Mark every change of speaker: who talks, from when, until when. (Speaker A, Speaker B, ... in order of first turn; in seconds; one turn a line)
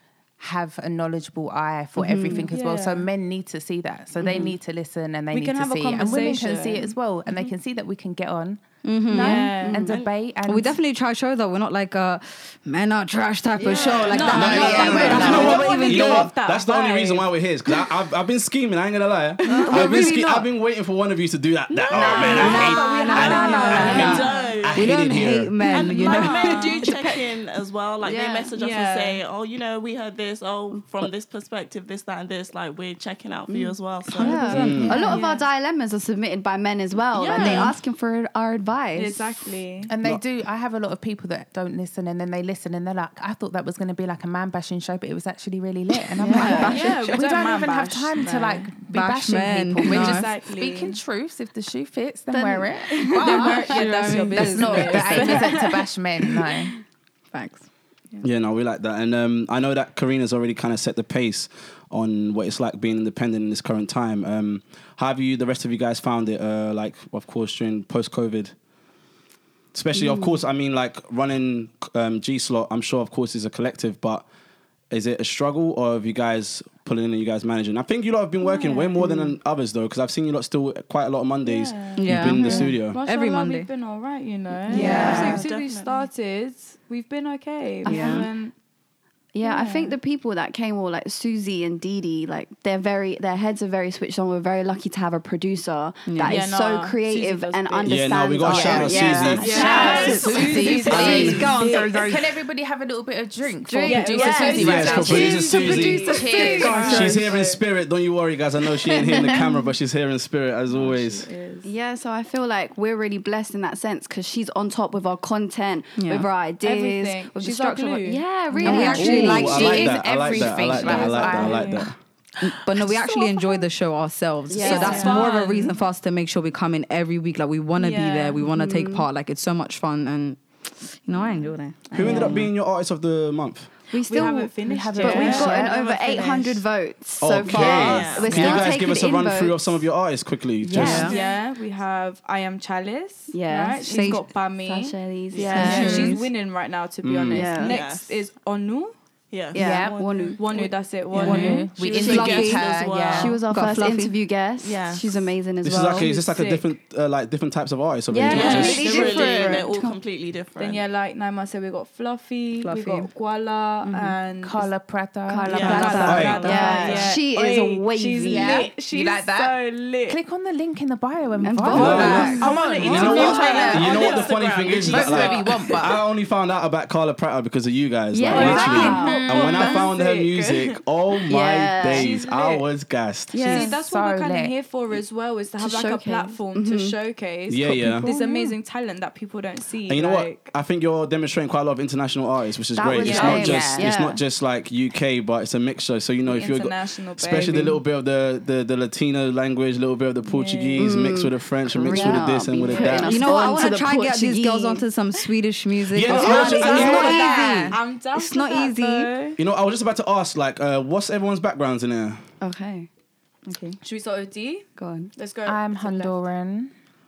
Speaker A: 0.4-10.8
Speaker B: 2.0-2.4
Speaker C: 2.0-2.4
Speaker D: 2.5-3.1
Speaker D: 5.3-6.9
Speaker C: 8.8-9.6
Speaker D: 9.1-9.9
Speaker B: 9.1-10.0
Speaker E: 9.9-10.1
Speaker C: 10.4-16.3
Speaker E: 13.6-15.2
Speaker D: 13.9-17.3
Speaker F: 14.3-25.6
Speaker A: 14.4-15.6
Speaker B: 15.1-15.5
Speaker C: 19.4-20.5
Speaker E: 19.4-20.1
Speaker E: 21.7-24.9
Speaker C: 22.1-27.1
Speaker D: 22.2-24.6
Speaker E: 25.6-34.8
Speaker D: 25.6-27.0
Speaker B: 28.0-28.5
Speaker D: 28.6-29.2
Speaker B: 33.5-39.3
Speaker C: 34.1-35.2
Speaker F: 34.5-35.0
Speaker D: 34.9-35.4
Speaker E: 37.1-37.8
Speaker D: 37.1-37.8
Speaker D: 39.0-39.9
Speaker A: 39.9-56.7
Speaker B: 46.2-46.8
Speaker C: 46.2-47.2
Speaker D: 46.6-48.8
Speaker C: 48.9-50.3
Speaker D: 49.8-51.0
Speaker B: 52.3-53.5
Speaker D: 53.2-55.9
Speaker C: 53.2-55.6
Speaker C: 57.3-57.6
Speaker F: 58.2-68.5
Speaker F: 69.7-74.2
Speaker B: 69.9-70.4
Speaker F: 74.9-83.0
Speaker D: 78.4-79.2
Speaker D: 81.4-88.5
Speaker C: 81.9-83.7
Speaker C: 84.7-85.4
Speaker B: 84.7-85.4
Speaker A: 84.7-85.5
Speaker E: 84.9-86.1
Speaker B: 87.8-88.3
Speaker C: 87.8-88.3
Speaker B: 89.3-100.3
Speaker D: 89.4-90.0
Speaker C: 96.0-96.4
Speaker D: 96.2-98.0
Speaker F: 97.8-99.8
Speaker A: 98.4-107.2
Speaker C: 98.5-98.8
Speaker D: 98.9-102.1
Speaker C: 99.4-102.1
Speaker F: 100.9-101.5
Speaker B: 103.7-107.1
Speaker D: 103.8-107.6
Speaker F: 104.5-106.3
Speaker C: 104.8-105.5
Speaker C: 106.7-107.2
Speaker F: 106.9-111.3
Speaker B: 108.8-109.6
Speaker D: 110.7-111.7
Speaker B: 111.6-119.8
Speaker C: 116.0-116.3
Speaker D: 116.6-118.9
Speaker A: 118.5-121.9
Speaker C: 118.6-119.9
Speaker F: 119.0-121.9
Speaker D: 120.5-121.9
Speaker C: 122.4-132.5
Speaker D: 123.1-123.6
Speaker B: 124.5-125.3
Speaker D: 124.6-125.7
Speaker D: 127.7-128.4
Speaker B: 128.4-129.1
Speaker F: 131.9-133.7
Speaker B: 132.0-132.4
Speaker B: 133.9-139.7
Speaker D: 134.0-136.6
Speaker A: 134.6-135.6
Speaker E: 135.1-135.9
Speaker C: 135.2-135.6
Speaker F: 137.2-141.1
Speaker E: 137.5-138.7
Speaker A: 140.7-141.1
Speaker C: 140.7-141.1
Speaker E: 140.9-141.4
Speaker D: 141.1-148.9
Speaker B: 143.3-146.2
Speaker C: 143.9-144.2
Speaker E: 145.3-146.2
Speaker C: 145.6-146.3
Speaker F: 147.0-147.6
Speaker B: 147.3-147.8
Speaker E: 147.6-148.2
Speaker E: 149.3-153.4
Speaker B: 149.5-150.7
Speaker A: 149.5-150.0
Speaker D: 150.3-151.7
Speaker C: 151.1-152.7
Speaker A: 151.2-153.3
Speaker B: 153.1-156.1
Speaker C: 153.4-154.1
Speaker E: 154.6-155.3
Speaker F: 155.6-158.9
Speaker D: 155.9-156.7
Speaker B: 158.1-159.7
Speaker E: 158.3-160.9
Speaker A: 158.5-159.9
Speaker D: 160.6-164.7
Speaker C: 162.6-163.1
Speaker B: 163.8-164.2
Speaker A: 164.4-166.8
Speaker B: 165.3-168.7
Speaker E: 165.5-167.2
Speaker D: 165.5-170.2
Speaker F: 166.0-166.5
Speaker A: 168.2-174.1
Speaker B: 171.4-172.4
Speaker C: 171.7-172.4
Speaker F: 171.7-183.6
Speaker D: 171.7-174.3
Speaker E: 172.2-175.8
Speaker A: 174.8-176.0
Speaker B: 178.1-179.2
Speaker D: 178.2-180.5
Speaker A: 178.3-179.8
Speaker B: 181.3-182.1
Speaker D: 181.8-182.7
Speaker B: 183.3-183.7
Speaker A: 183.3-184.5
Speaker D: 183.4-190.5
Speaker B: 185.6-186.9
Speaker F: 187.5-188.1
Speaker A: 188.0-188.6
Speaker F: 189.9-203.3
Speaker B: 192.7-194.2
Speaker A: 192.8-193.9
Speaker D: 193.0-193.5
Speaker D: 196.2-197.8
Speaker D: 200.2-200.9
Speaker B: 200.8-204.8
Speaker D: 201.9-203.7
Speaker C: 202.9-209.1
Speaker F: 205.9-207.2
Speaker D: 206.1-209.4
Speaker A: 206.1-207.8
Speaker F: 209.4-212.2
Speaker B: 212.4-212.9
Speaker C: 213.5-213.8
Speaker D: 213.8-216.2
Speaker B: 214.8-215.1
Speaker A: 215.4-216.7